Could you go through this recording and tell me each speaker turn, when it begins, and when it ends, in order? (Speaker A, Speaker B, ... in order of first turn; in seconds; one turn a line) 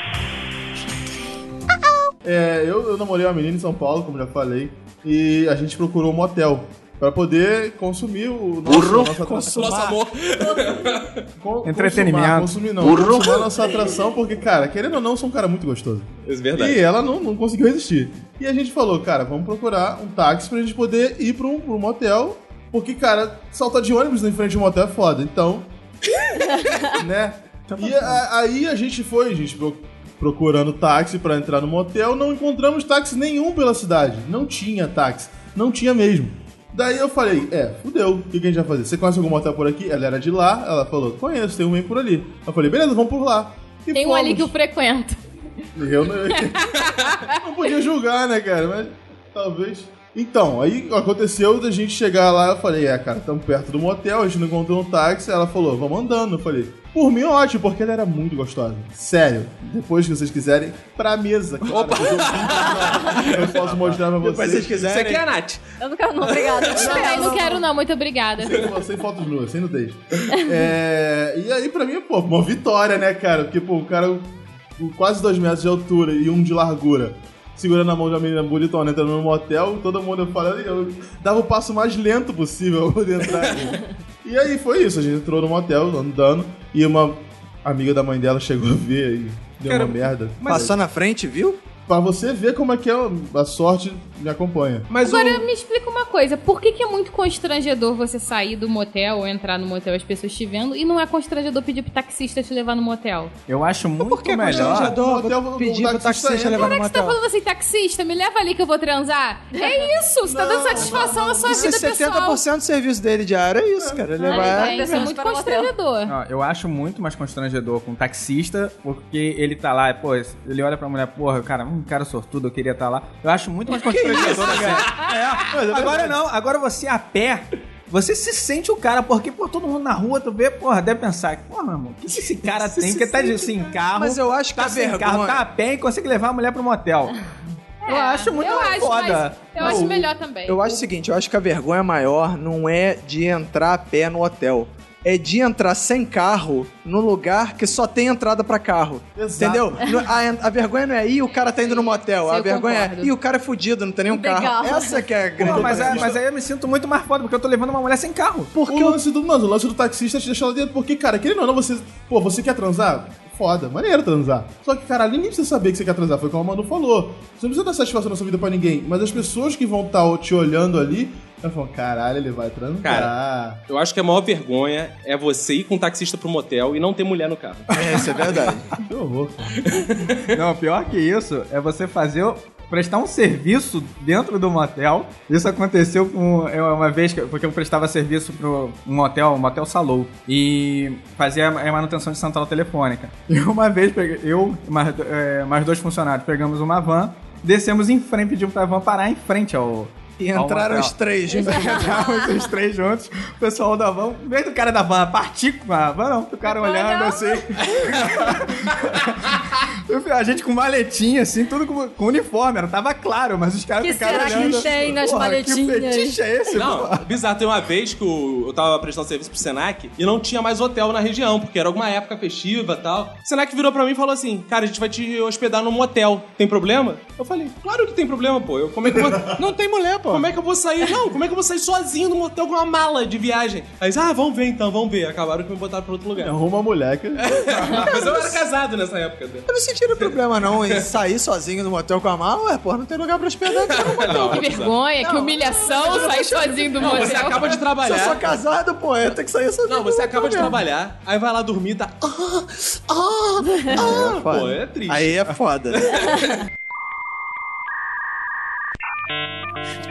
Speaker A: 2.2-9.8
Speaker B: 8.7-10.0
Speaker C: 9.5-11.2
Speaker A: 11.4-25.7
Speaker D: 11.7-12.5
Speaker C: 16.3-16.8
Speaker A: 26.9-44.5
Speaker D: 27.7-28.2
Speaker E: 43.9-45.2
Speaker A: 45.8-64.9
Speaker E: 46.7-47.4
Speaker C: 61.7-63.6
Speaker B: 63.6-65.3
Speaker C: 64.7-65.6
Speaker F: 65.8-67.5
Speaker A: 66.7-67.6
Speaker E: 66.7-68.7
Speaker B: 66.8-67.5
Speaker A: 68.4-90.8
Speaker C: 89.7-90.7
Speaker B: 90.5-91.6
Speaker A: 91.9-94.9
Speaker C: 94.9-95.5
Speaker E: 95.0-103.3
Speaker D: 103.5-105.0
Speaker B: 104.0-107.2
Speaker A: 104.5-106.8
Speaker E: 106.5-112.4
Speaker F: 109.5-109.9
Speaker A: 110.2-111.7
Speaker B: 111.0-115.1
Speaker A: 113.8-114.3
Speaker F: 114.3-115.7
Speaker E: 114.3-116.1
Speaker D: 116.1-137.2
Speaker C: 124.3-125.0
Speaker A: 125.5-126.2
Speaker B: 132.5-135.5
Speaker E: 137.8-140.6
Speaker D: 137.9-139.8
Speaker B: 139.6-156.2
Speaker A: 149.2-149.9
Speaker E: 151.6-153.1
Speaker F: 154.1-155.1
Speaker A: 155.4-156.2
Speaker D: 155.4-158.5
Speaker B: 158.6-159.0
Speaker A: 158.7-173.6
Speaker C: 172.8-173.1
Speaker C: 173.7-178.3
Speaker B: 177.8-178.7
Speaker A: 178.8-179.7
Speaker C: 179.6-180.4
Speaker D: 180.3-217.1
Speaker B: 200.2-202.0
Speaker F: 201.4-202.3
Speaker F: 206.4-207.4
Speaker C: 207.7-209.1
Speaker F: 213.8-216.2
Speaker C: 216.5-229.4
Speaker B: 229.3-230.3
Speaker C: 230.1-236.3
Speaker A: 236.2-237.9
Speaker C: 237.2-240.9
Speaker B: 237.7-238.4
Speaker B: 239.5-244.5
Speaker C: 243.5-248.4
Speaker E: 244.1-247.5
Speaker B: 245.8-247.3
Speaker B: 247.8-250.6
Speaker C: 249.7-255.3
Speaker B: 253.7-256.2
Speaker C: 255.8-256.3